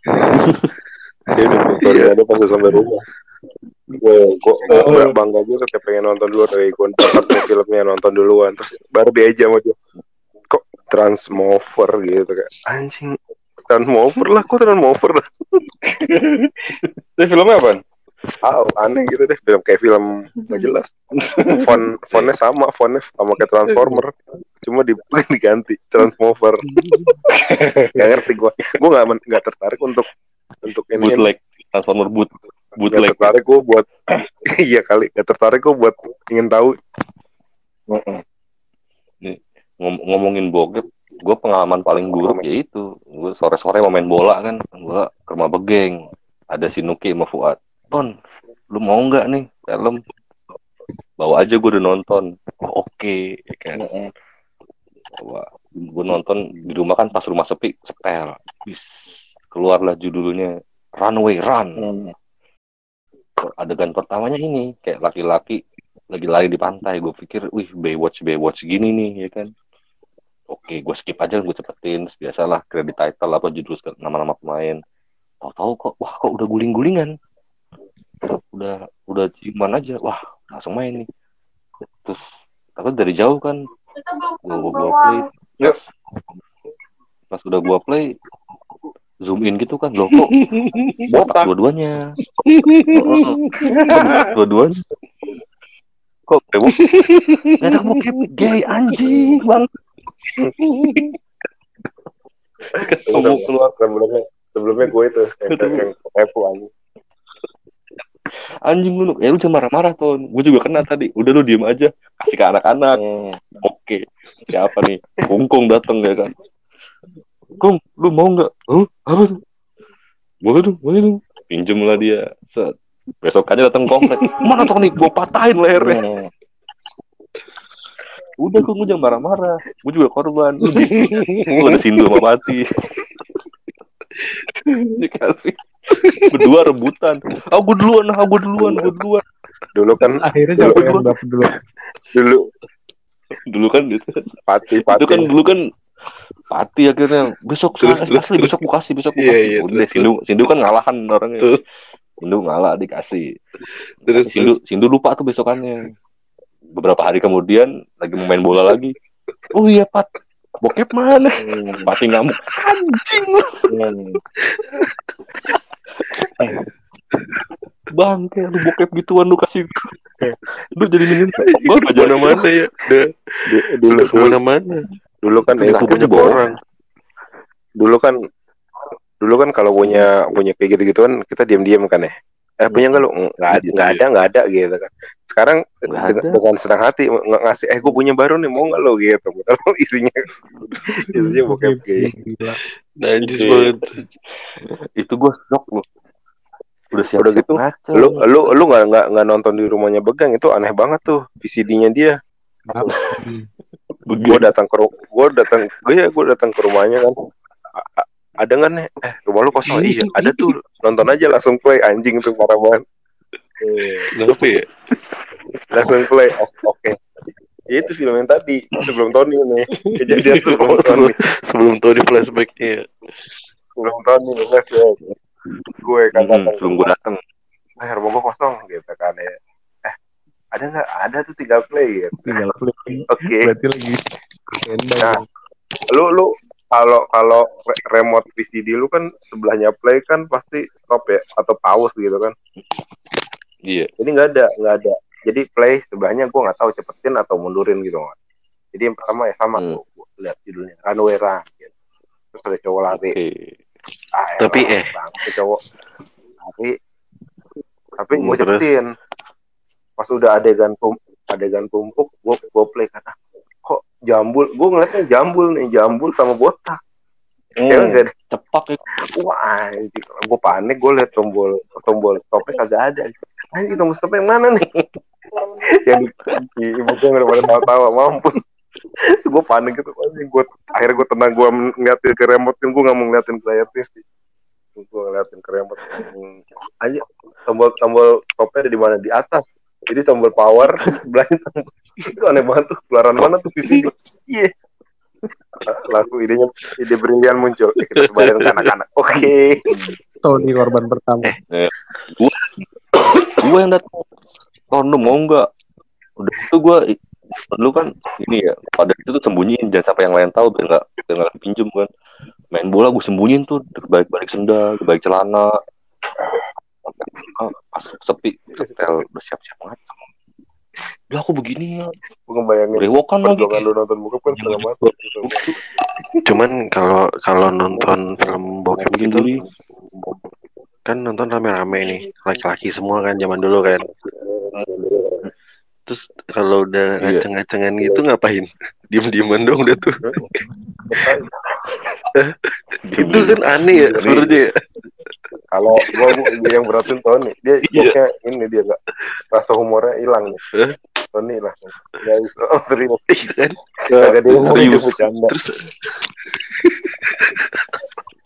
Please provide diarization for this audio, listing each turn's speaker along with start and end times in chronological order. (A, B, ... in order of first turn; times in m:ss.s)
0:01.4-0:03.0 A
0:01.8-0:02.1 B
0:04.0-0:09.8 A
0:10.5-0:15.3 A
0:15.8-0:16.6 C
0:17.2-0:17.8 C
0:18.4-0:26.6 A
0:21.2-0:21.7 C
0:26.7-0:27.2 B
0:27.3-0:28.2 C
0:27.9-0:30.1 A
0:30.6-0:31.3 A
0:31.0-0:33.3 D
0:32.9-0:33.9 A
0:34.4-0:36.8 A
0:37.9-0:38.2 C
0:39.2-0:46.0 D
0:46.5-0:48.1 D
0:48.7-0:50.0 D
0:51.2-0:52.3 D
0:52.6-0:53.2 B
0:53.5-0:53.8 D
0:53.8-0:54.1 C
0:55.2-1:01.9 D
1:01.8-1:02.1 C
1:03.4-1:05.6 D
1:06.1-1:09.5 D
1:10.5-1:14.8 D
1:15.4-1:17.1 D
1:18.3-1:21.1 D
1:22.8-1:23.6 D
1:24.4-1:25.8 D
1:27.3-1:28.1 D
1:29.3-1:30.4 D
1:30.1-1:31.1 B
1:31.1-1:32.0 D
1:31.1-1:31.5 C
1:32.4-1:33.7 B
1:32.9-1:33.4 D
1:33.1-1:34.3 C
1:33.9-1:34.8 D
1:36.3-1:36.8 D
1:36.7-1:38.6 B
1:37.6-1:39.7 D
1:40.6-1:41.1 B
1:42.7-1:43.7 D
1:43.1-1:46.7 A
1:45.5-1:45.9 D
1:48.7-1:53.0 D
1:52.9-1:53.4 C
1:53.6-1:56.3 D
1:57.6-1:59.4 D
2:00.4-2:06.0 D
2:05.8-2:06.3 C
2:08.4-2:12.7 D
2:10.6-2:12.2 B
2:14.7-2:15.6 D
2:15.9-2:16.5 B
2:16.3-2:19.2 D
2:19.8-2:21.0 A
2:20.2-2:21.6 E
2:20.6-2:21.0 D
2:22.1-2:22.4 A
2:23.5-2:25.6 D
2:24.5-2:25.3 A
2:26.5-2:31.5 D
2:27.8-2:28.6 B
2:29.2-2:30.1 B
2:32.2-2:33.3 D
2:34.1-2:34.5 B
2:34.2-2:35.8 D
2:36.8-2:38.9 D
2:39.5-2:40.1 D
2:40.6-2:43.7 D
2:41.4-2:41.9 C
2:43.7-2:44.2 C
2:44.4-2:44.9 B
2:47.9-2:49.9 D
2:50.8-2:52.5 D
2:51.1-2:54.9 B
2:53.5-2:54.4 A
2:55.2-2:56.3 A
2:55.5-2:56.6 B
2:55.6-2:56.4 D
2:57.8-2:58.2 A
2:59.2-3:10.2 A
3:03.5-3:04.0 D
3:05.9-3:06.4 D
3:11.0-3:12.1 A
3:11.2-3:12.6 E
3:13.0-3:14.0 B
3:13.4-3:13.8 D
3:14.6-3:15.8 D
3:16.9-3:18.3 D
3:17.2-3:22.2 A
3:22.7-3:23.5 E
3:24.1-3:24.5 D
3:24.2-3:27.2 A
3:27.8-3:32.8 A
3:29.7-3:30.6 B
3:33.6-3:33.9 C
3:34.1-3:34.7 B
3:35.7-3:37.0 A
3:37.7-3:41.2 A
3:39.8-3:42.9 B
3:43.8-3:45.0 A
3:45.8-3:46.9 A
3:46.1-3:47.2 D
3:47.8-3:50.0 A
3:50.5-3:52.4 A
3:52.2-3:55.2 E
3:53.1-3:53.5 A
3:55.9-4:02.4 A
4:04.0-4:08.1 A
4:08.7-4:11.7 A
4:09.6-4:09.8 D
4:12.3-4:13.2 A
4:12.9-4:13.6 D
4:14.1-4:15.6 A
4:14.4-4:14.9 B
4:16.4-4:16.8 A
4:18.0-4:18.9 A
4:18.1-4:18.6 B
4:20.0-4:26.8 A
4:27.6-4:28.1 C
4:27.7-4:28.1 A
4:28.3-4:28.8 D
4:29.1-4:34.7 A
4:35.8-4:38.4 A
4:39.2-4:44.0 A
4:44.8-4:54.5 A
4:55.7-4:59.6 A
4:57.9-4:58.7 B
5:00.2-5:01.3 E
5:01.5-5:02.5 D
5:03.3-5:04.0 D
5:04.7-5:05.5 D
5:06.2-5:11.9 D
5:12.5-5:15.5 D
5:16.9-5:20.0 D
5:21.1-5:21.9 D
5:22.3-5:25.6 A
5:22.7-5:23.7 D
5:24.3-5:25.5 D
5:26.2-5:29.3 B
5:28.8-5:29.4 D
5:30.9-5:33.9 B
5:34.2-5:35.2 A
5:35.9-5:40.1 B
5:40.9-5:41.3 A
5:42.1-5:44.6 B
5:42.8-5:44.4 D
5:45.5-5:48.8 A
5:46.1-5:46.4 B
5:49.3-5:50.4 A
5:51.1-5:53.0 A
5:53.1-5:53.6 B
5:53.9-5:55.4 A
5:54.3-5:55.0 D
5:54.4-5:57.9 B